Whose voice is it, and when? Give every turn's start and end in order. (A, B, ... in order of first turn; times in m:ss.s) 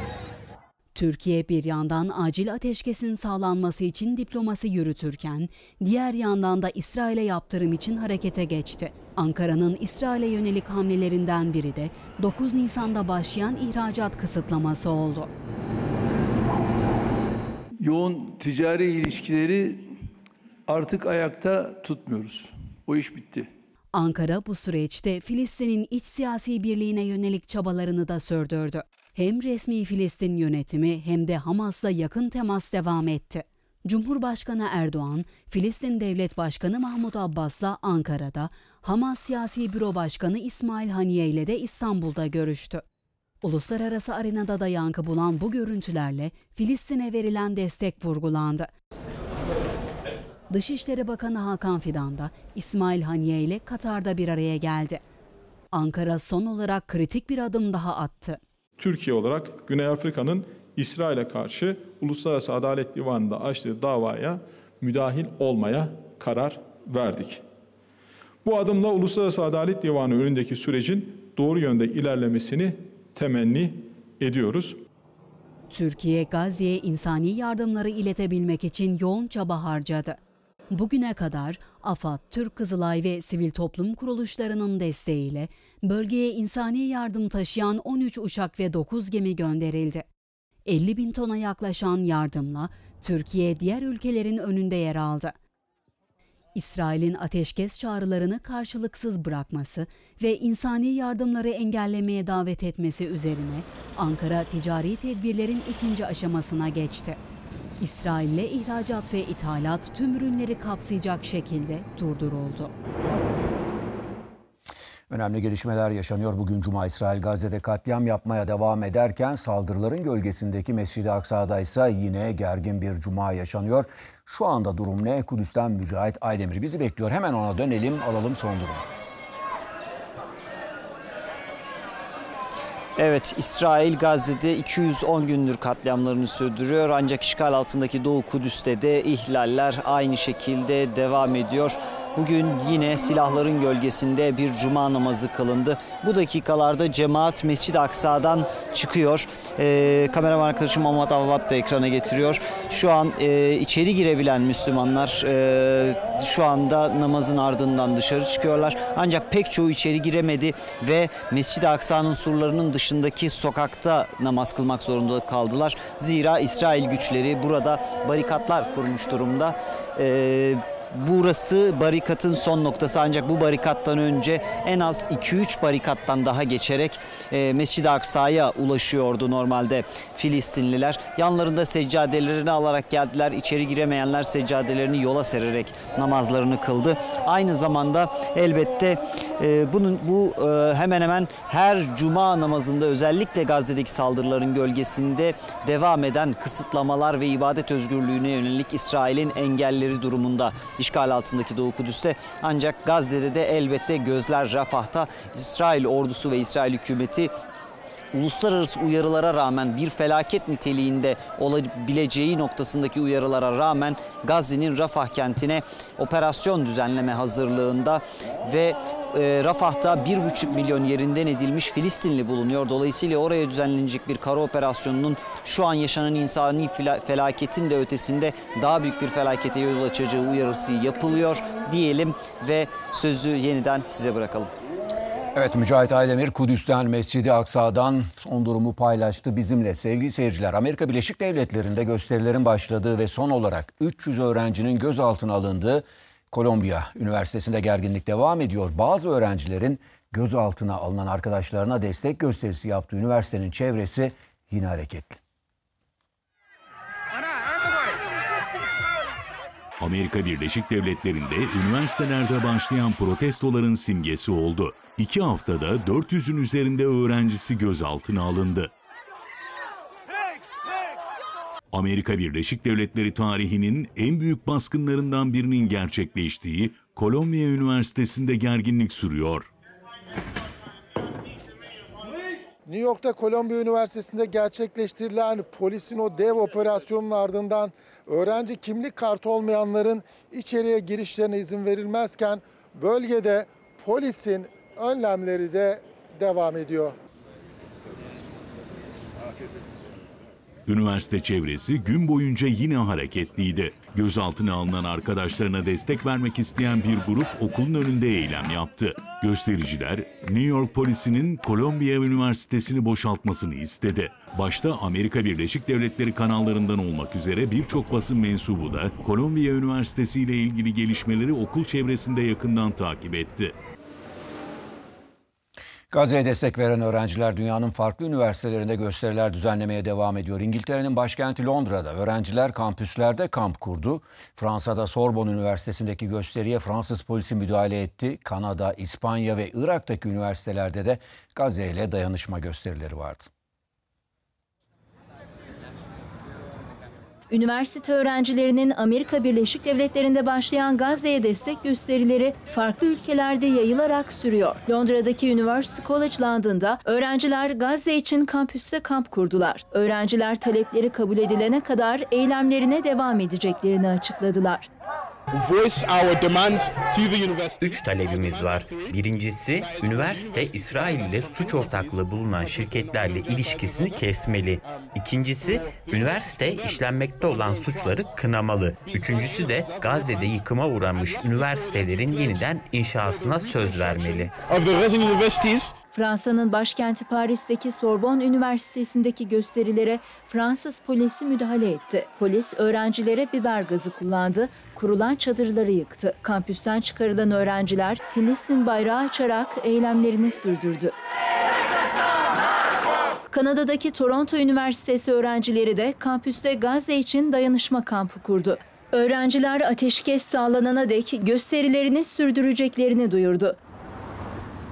0:00.9-0:15.3 A
0:17.8-0:19.8 B
0:20.7-0:23.4 B
0:23.9-0:42.8 A
0:43.4-0:48.7 A
0:50.5-0:55.0 A
0:55.7-0:58.4 A
0:58.8-1:07.4 C
1:08.4-1:14.8 C
1:15.7-1:20.2 A
1:20.7-1:30.0 A
1:30.7-1:35.3 A
1:36.6-1:47.2 A
1:47.8-1:52.7 A
1:55.1-2:08.8 D
2:13.0-3:27.3 E
3:28.1-3:54.5 E
3:55.3-4:15.2 D
4:19.8-4:28.7 F
4:31.7-4:39.5 F
4:42.7-4:56.9 G
5:00.7-5:23.5 F
5:25.9-5:43.3 D
5:47.3-6:04.7 H
6:07.6-6:24.3 I
6:25.9-6:40.9 H
6:43.3-6:53.6 H